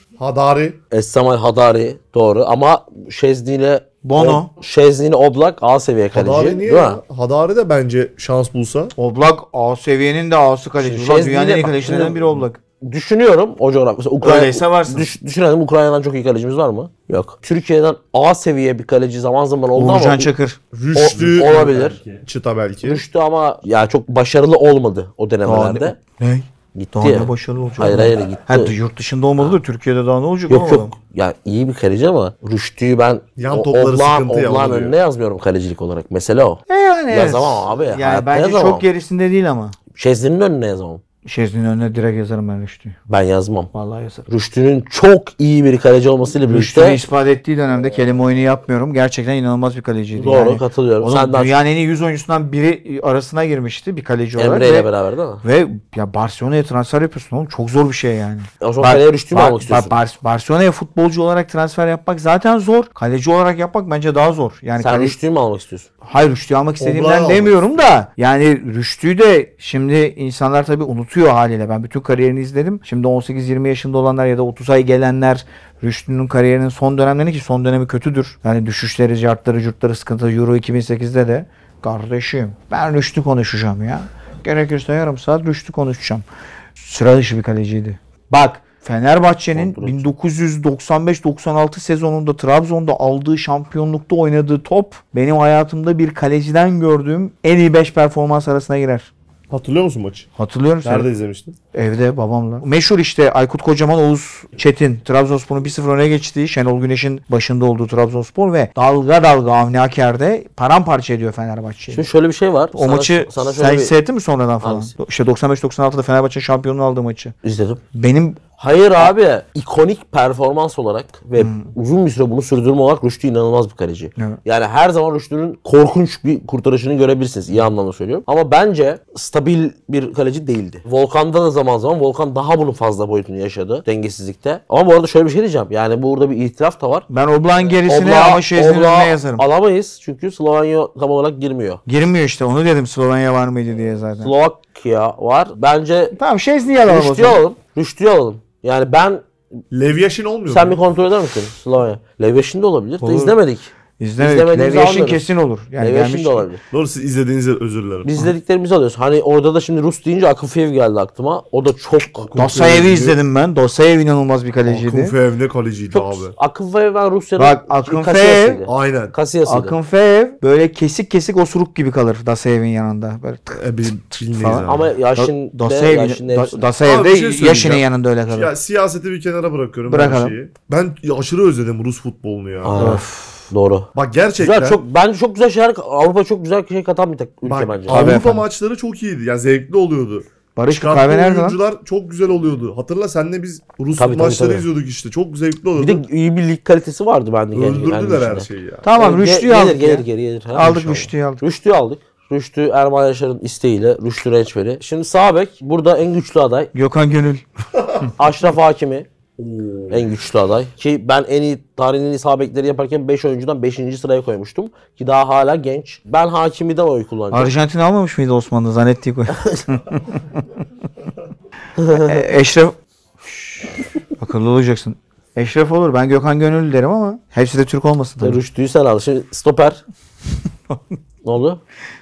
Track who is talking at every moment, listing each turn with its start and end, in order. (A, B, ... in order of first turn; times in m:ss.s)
0:00.2-0:00.8 A
0:00.9-0:07.0 B
0:04.0-0:04.5 C
0:06.1-0:08.9 A
0:09.0-0:12.6 C
0:10.8-0:20.3 B
0:14.2-0:15.1 C
0:19.8-0:20.6 C
0:20.7-0:23.0 A
0:20.9-0:22.0 B
0:22.8-0:26.0 B
0:25.4-0:30.9 C
0:26.7-0:28.7 B
0:30.5-0:38.8 B
0:33.4-0:35.0 A
0:36.7-0:39.8 C
0:39.9-0:41.0 B
0:41.2-0:43.0 C
0:43.1-0:43.7 B
0:43.7-0:44.2 C
0:44.3-0:47.0 B
0:46.4-0:54.9 C
0:50.2-0:51.5 B
0:54.4-0:55.4 B
0:55.4-1:05.2 C
0:58.6-1:00.0 B
1:04.8-1:05.9 B
1:06.0-1:26.2 C
1:06.8-1:07.7 A
1:26.8-1:39.1 C
1:29.5-1:30.1 B
1:39.5-1:40.3 A
1:40.4-1:41.1 C
1:40.8-1:41.6 A
1:41.7-1:52.0 C
1:51.9-1:53.9 B
1:52.7-1:57.3 C
1:54.6-1:54.9 B
1:57.4-1:57.8 B
1:57.9-1:58.4 C
1:58.6-2:17.1 B
2:01.4-2:01.7 C
2:17.1-2:19.4 C
2:17.7-2:21.8 B
2:21.9-2:24.3 C
2:24.2-2:26.2 B
2:26.1-2:27.4 C
2:26.8-2:29.2 B
2:29.7-2:30.8 A
2:30.5-2:35.2 B
2:33.0-2:33.4 C
2:34.0-2:36.4 C
2:35.8-2:36.6 B
2:36.7-2:38.1 A
2:38.0-2:42.3 B
2:42.2-2:43.2 A
2:42.4-2:45.1 C
2:44.7-2:46.3 A
2:45.9-2:49.7 B
2:47.4-2:48.6 C
2:48.6-2:49.1 A
2:49.4-2:53.6 C
2:53.5-2:54.9 A
2:54.2-2:58.5 C
2:54.7-2:56.6 B
2:56.8-3:03.0 A
2:59.9-3:00.3 C
3:02.6-3:03.9 B
3:02.8-3:03.5 C
3:03.9-3:04.8 A
3:04.4-3:08.2 B
3:07.4-3:16.0 A
3:07.9-3:08.4 C
3:10.6-3:11.6 C
3:14.0-3:14.7 B
3:15.8-3:26.7 B
3:17.5-3:18.8 A
3:18.8-3:21.4 C
3:26.7-3:27.4 C
3:28.2-3:29.1 B
3:29.4-3:30.1 A
3:29.9-3:37.5 B
3:37.3-3:40.4 C
3:39.3-3:39.6 B
3:41.8-3:42.3 B
3:41.9-3:42.7 C
3:43.3-3:43.6 C
3:44.2-3:48.4 C
3:48.2-3:49.8 B
3:51.2-3:51.6 B